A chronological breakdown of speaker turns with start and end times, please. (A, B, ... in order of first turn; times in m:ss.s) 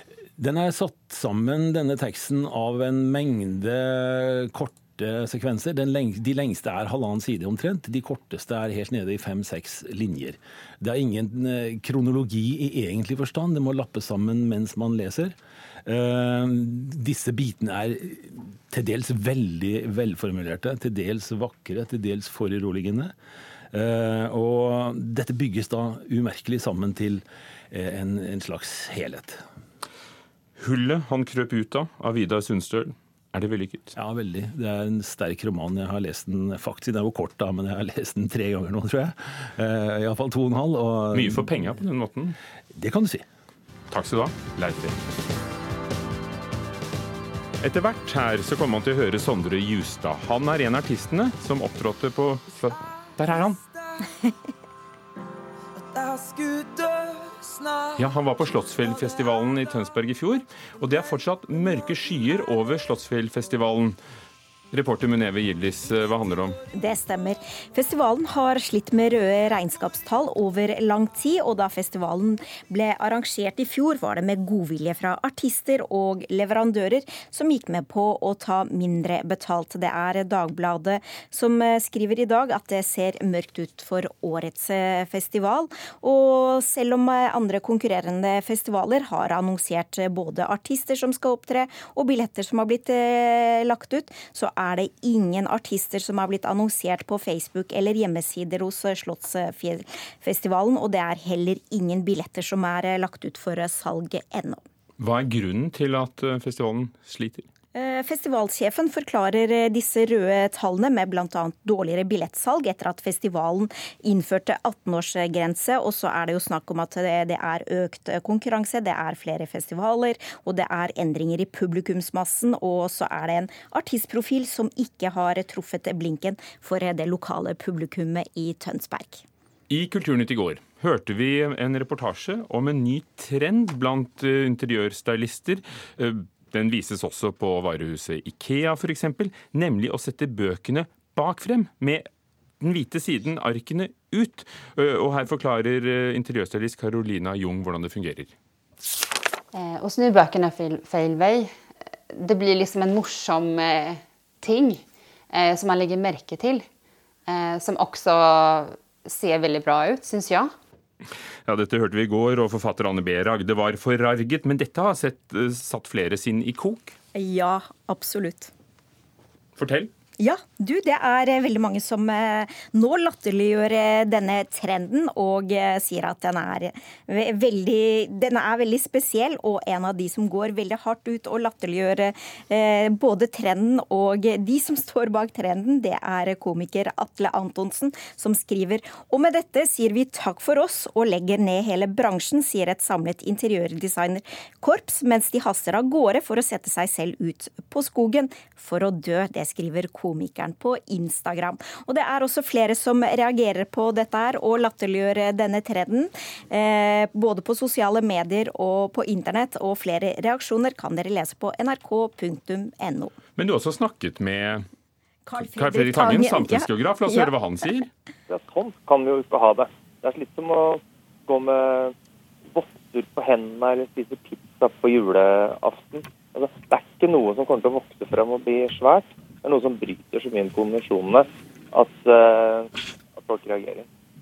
0:00.4-0:23.1 A
0:23.7-0:29.4 A
0:30.6-0:33.9 B
0:34.0-0:41.6 A
0:41.1-0:42.4 B
0:42.7-0:43.2 A
0:43.9-0:45.1 B
0:47.6-0:53.6 B
0:58.0-1:04.0 B
1:04.7-1:06.6 B
1:06.8-1:44.6 C
1:45.0-1:47.5 B
1:47.7-2:09.2 C
2:09.7-2:22.1 B
2:22.6-2:28.3 B
2:29.6-2:31.5 D
2:32.2-2:34.8 D
2:35.4-2:36.6 D
2:37.3-2:40.5 D
2:41.5-2:47.0 B
2:47.2-2:48.5 C
2:49.6-2:49.9 B
2:50.2-3:33.1 C
3:33.4-3:34.7 B
3:35.3-3:37.3 C
3:35.4-3:37.9 B
3:38.3-3:41.9 E
3:42.5-3:53.9 E